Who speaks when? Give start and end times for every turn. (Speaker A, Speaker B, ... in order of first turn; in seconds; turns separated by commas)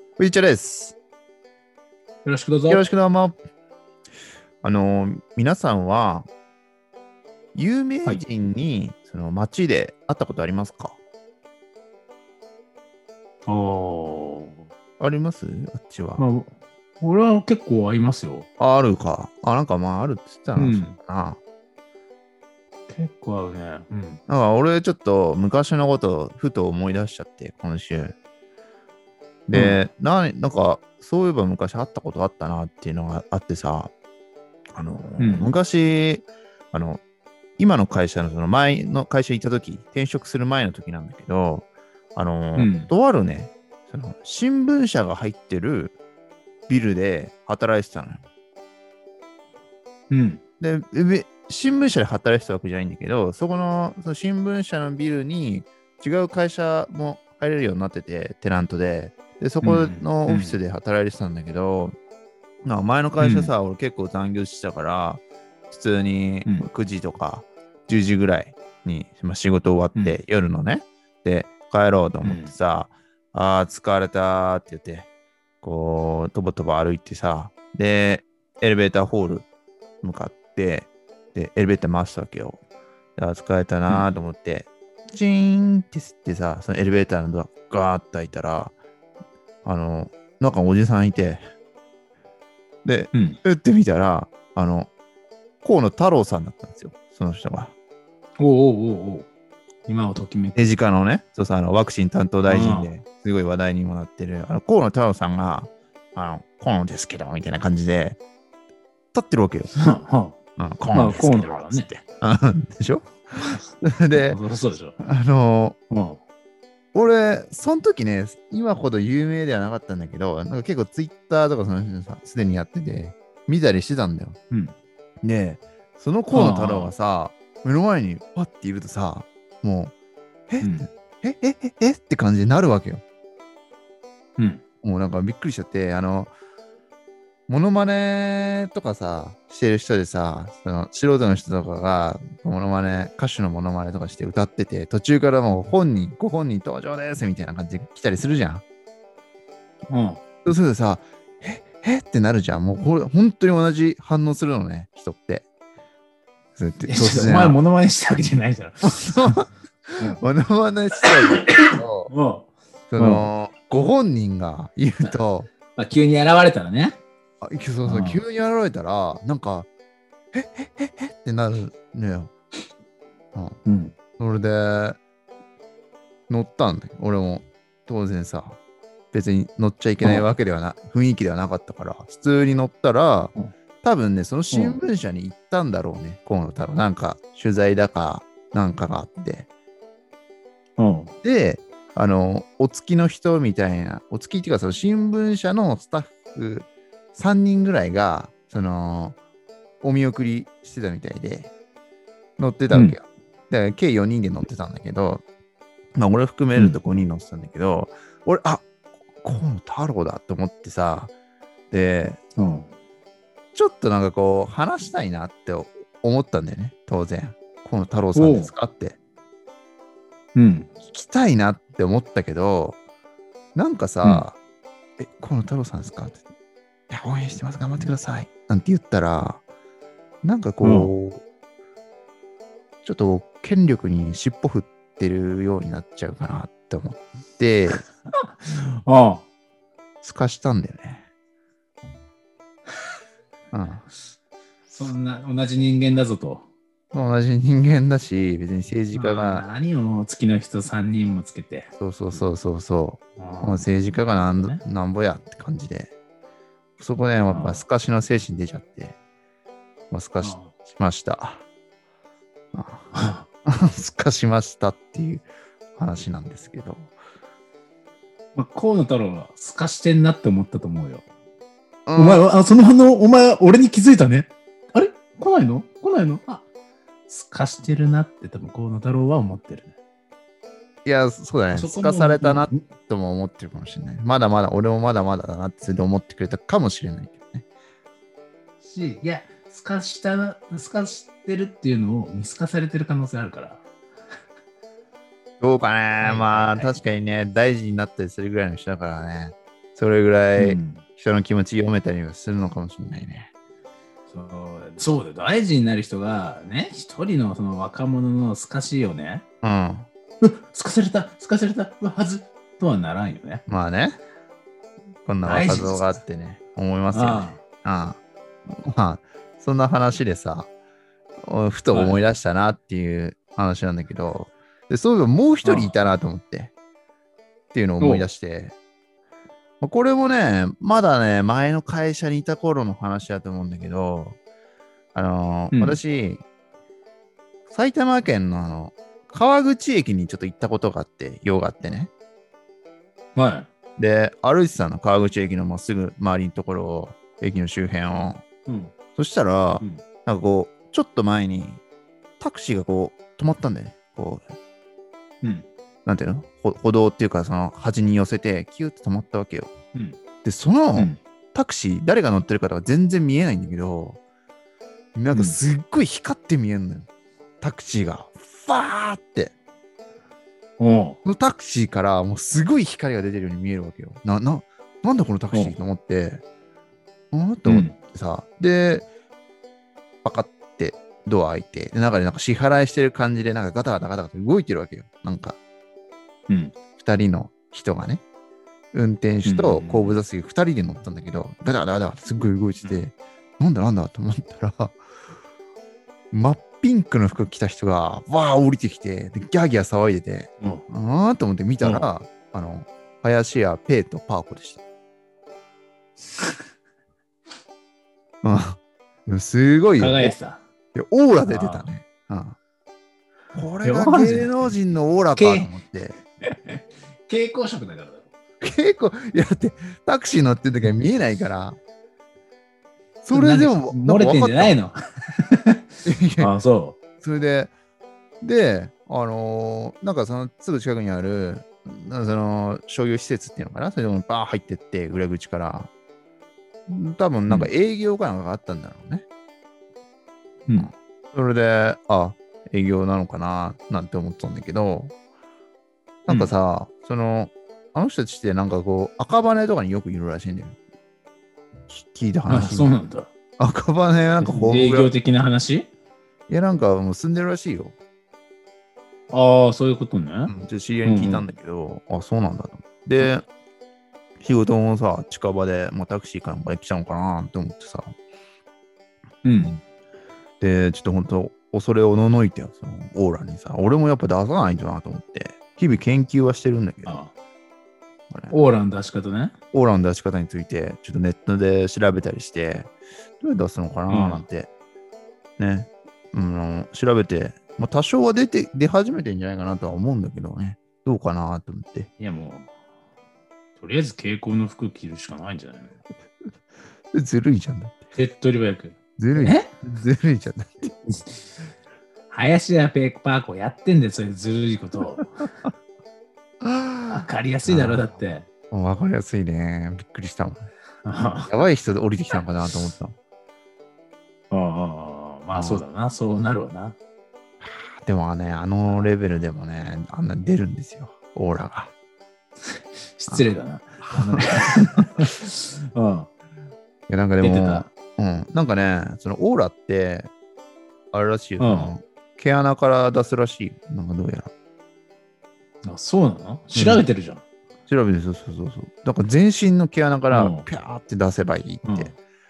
Speaker A: 0.2-1.0, Speaker B: 2.2-2.8, Speaker A: 2.7-3.4, Speaker A: 4.6-6.3, Speaker A: 7.5-11.0, Speaker B: 13.5-14.7, Speaker A: 15.0-16.2, Speaker B: 16.2-18.5, Speaker A: 18.6-21.4, Speaker B: 20.6-20.9, Speaker B: 22.9-24.2, Speaker A: 24.3-28.1, Speaker A: 29.5-33.9, Speaker B: 29.5-29.8, Speaker A: 34.7-37.0, Speaker B: 35.2-35.5, Speaker A: 37.6-46.0, Speaker B: 42.5-42.9, Speaker A: 46.7-48.2, Speaker B: 50.1-50.4, Speaker A: 50.6-61.9, Speaker B: 59.6-60.6, Speaker A: 62.6-75.1, Speaker B: 63.2-63.5, Speaker B: 72.2-72.5, Speaker A: 75.6-79.5, Speaker A: 80.0-82.6, Speaker A: 83.2-88.7, Speaker A: 89.7-91.4, Speaker A: 92.8-94.9, Speaker B: 93.1-93.4, Speaker A: 95.6-97.7, Speaker B: 98.4-99.3, Speaker B: 99.9-100.6, Speaker A: 100.5-108.2, Speaker B: 102.5-102.9, Speaker A: 109.1-110.0, Speaker B: 109.8-110.4, Speaker A: 110.6-114.4, Speaker B: 110.9-111.9, Speaker B: 114.1-115.0, Speaker A: 115.0-115.8, Speaker B: 115.9-116.2, Speaker A: 116.9-124.4, Speaker A: 125.2-129.9, Speaker B: 126.3-126.9, Speaker A: 130.5-133.0, Speaker B: 130.6-130.9, Speaker A: 134.8-136.3, Speaker A: 137.5-148.6, Speaker B: 149.9-150.2, Speaker A: 150.4-155.5, Speaker A: 156.6-157.6, Speaker B: 156.8-159.3, Speaker A: 158.8-162.1, Speaker B: 161.0-163.3, Speaker A: 162.9-165.5, Speaker B: 165.7-167.0, Speaker A: 167.4-169.7, Speaker B: 167.8-168.2, Speaker A: 170.3-172.3, Speaker B: 173.7-173.9, Speaker A: 174.2-175.0, Speaker A: 176.3-178.6, Speaker A: 179.1-189.5, Speaker B: 180.0-180.3, Speaker B: 184.5-184.8, Speaker B: 190.8-191.1, Speaker A: 191.2-199.2, Speaker A: 199.8-201.5, Speaker A: 202.4-205.2, Speaker B: 202.7-203.0, Speaker A: 205.9-208.7, Speaker B: 206.6-206.8, Speaker A: 209.2-211.1, Speaker A: 211.7-212.2, Speaker B: 212.4-212.7, Speaker A: 213.6-219.0, Speaker B: 218.2-218.5, Speaker B: 220.3-220.7, Speaker A: 220.9-222.8, Speaker A: 223.6-224.4, Speaker A: 225.0-226.2, Speaker A: 226.9-229.4, Speaker A: 230.2-231.2, Speaker B: 230.6-230.9, Speaker A: 232.8-237.8, Speaker B: 237.7-239.2, Speaker A: 240.0-241.1, Speaker A: 243.5-243.8, Speaker B: 244.7-246.5, Speaker A: 246.9-249.5, Speaker B: 248.9-252.2, Speaker A: 251.8-255.9, Speaker B: 253.2-253.7, Speaker A: 256.8-258.9, Speaker B: 257.3-257.6, Speaker A: 259.9-261.4, Speaker B: 260.2-260.5, Speaker A: 262.5-262.9, Speaker B: 262.9-263.2, Speaker A: 263.4-266.9, Speaker B: 268.3-271.1, Speaker A: 271.9-272.2, Speaker B: 271.9-276.4, Speaker B: 277.1-279.8, Speaker A: 280.8-287.4, Speaker B: 281.5-282.5, Speaker B: 288.6-293.6, Speaker A: 295.4-303.3, Speaker B: 296.0-296.8, Speaker B: 300.4-300.8, Speaker B: 304.1-309.2, Speaker A: 309.4-309.9, Speaker B: 310.2-313.4, Speaker A: 313.5-314.0, Speaker A: 315.0-320.5, Speaker B: 315.2-315.9, Speaker B: 316.9-317.4, Speaker A: 321.2-326.5, Speaker B: 321.7-322.0, Speaker B: 325.4-325.7, Speaker A: 327.5-328.5, Speaker B: 327.8-328.1, Speaker A: 329.6-334.2, Speaker A: 334.9-336.2, Speaker B: 335.5-335.8, Speaker A: 337.5-341.9, Speaker B: 343.1-343.5, Speaker A: 343.8-348.2, Speaker B: 348.4-348.7, Speaker A: 348.9-351.6, Speaker A: 352.2-354.2, Speaker B: 355.2-355.5, Speaker A: 355.9-359.5, Speaker A: 360.2-364.0, Speaker A: 364.9-366.9, Speaker B: 365.1-365.4, Speaker A: 367.4-369.3, Speaker B: 370.6-371.0, Speaker A: 371.0-376.2, Speaker A: 377.1-378.9, Speaker B: 377.4-377.8, Speaker A: 380.0-385.4, Speaker B: 386.3-386.5, Speaker A: 386.8-388.0, Speaker A: 388.7-394.8, Speaker B: 389.2-390.0, Speaker A: 396.1-404.6, Speaker B: 401.6-401.9, Speaker A: 408.2-410.1, Speaker B: 409.8-410.4, Speaker A: 410.7-412.4, Speaker B: 411.2-411.7, Speaker A: 413.3-416.0, Speaker B: 413.6-414.5, Speaker B: 415.1-415.5, Speaker B: 416.2-418.1, Speaker A: 418.4-421.6, Speaker A: 423.0-424.6, Speaker B: 423.1-425.6, Speaker A: 425.8-426.3, Speaker B: 426.2-426.8, Speaker A: 427.0-427.5, Speaker A: 428.2-435.7, Speaker A: 436.7-439.0, Speaker A: 440.6-444.9, Speaker A: 446.1-450.6, Speaker B: 446.1-446.3, Speaker A: 451.7-452.8, Speaker B: 452.3-453.1, Speaker A: 453.4-454.9, Speaker B: 454.2-455.7, Speaker A: 456.3-457.8, Speaker B: 459.1-460.3, Speaker A: 460.3-463.2, Speaker B: 460.8-461.2, Speaker A: 464.2-467.9, Speaker B: 469.2-469.6, Speaker A: 470.4-477.0, Speaker B: 476.8-477.1, Speaker A: 478.1-478.4, Speaker B: 478.3-479.3, Speaker A: 479.5-484.5, Speaker B: 483.9-484.2, Speaker A: 485.4-491.9, Speaker B: 492.0-492.5, Speaker B: 493.6-495.8, Speaker A: 496.9-497.8, Speaker B: 497.9-499.5, Speaker A: 499.0-500.7, Speaker B: 502.1-505.3, Speaker A: 506.4-507.9, Speaker B: 506.9-508.2, Speaker A: 508.5-510.5, Speaker B: 510.9-511.4, Speaker A: 511.2-512.9, Speaker B: 514.3-516.8, Speaker A: 515.3-515.6, Speaker A: 517.4-521.7, Speaker B: 523.0-526.1, Speaker A: 523.9-524.8, Speaker A: 526.9-530.1, Speaker B: 527.2-527.7, Speaker A: 530.9-534.3, Speaker B: 531.4-531.8, Speaker B: 535.6-537.2, Speaker A: 536.5-536.8, Speaker A: 537.7-541.9, Speaker B: 540.1-540.5, Speaker B: 541.6-541.9